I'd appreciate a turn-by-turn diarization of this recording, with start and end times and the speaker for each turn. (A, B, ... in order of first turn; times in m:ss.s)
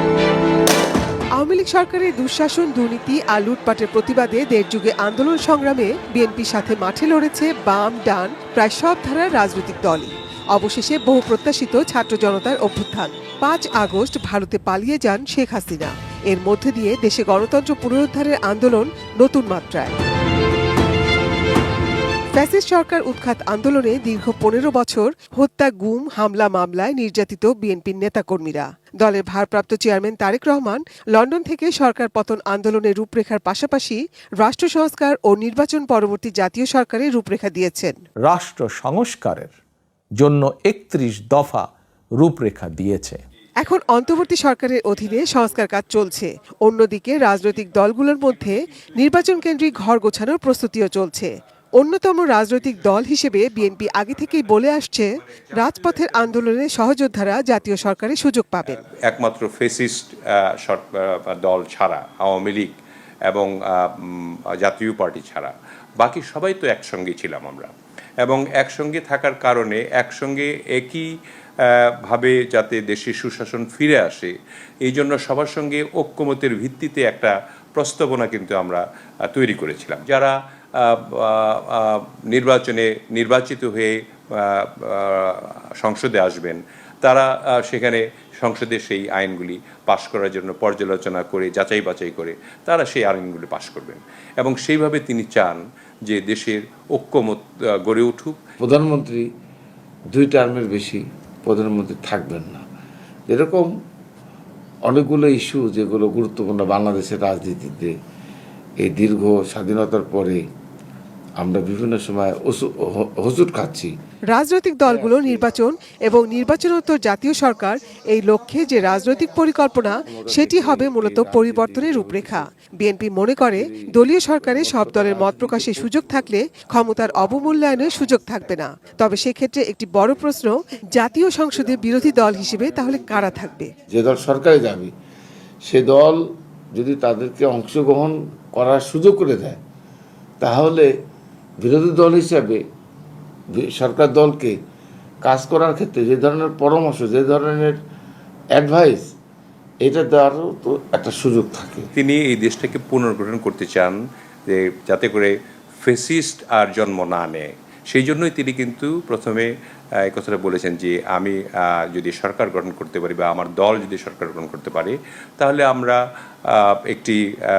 0:01.4-0:19.9 A
0:22.3-0:38.0 A
0:38.3-0:39.5 B
0:40.2-0:41.7 B
0:42.2-0:43.2 B
0:43.6-0:58.8 A
0:59.0-1:02.7 C
1:03.3-1:07.7 C
1:08.2-1:11.1 C
1:11.6-1:38.4 C
1:38.6-1:39.3 D
1:40.1-1:42.6 D
1:43.3-1:43.7 D
1:44.8-1:48.0 D
1:48.8-1:50.4 D
1:51.4-1:53.9 D
1:54.3-2:13.7 A
1:54.8-1:55.4 D
2:00.1-2:02.5 D
2:03.5-2:03.8 D
2:04.4-2:06.0 D
2:13.9-2:14.9 D
2:15.6-2:19.6 D
2:20.4-2:20.9 D
2:21.6-2:22.6 D
2:23.5-2:24.6 D
2:25.2-2:27.8 D
2:28.5-2:29.1 D
2:29.8-2:31.9 D
2:32.0-2:39.5 C
2:40.0-2:46.0 C
2:46.5-2:47.2 C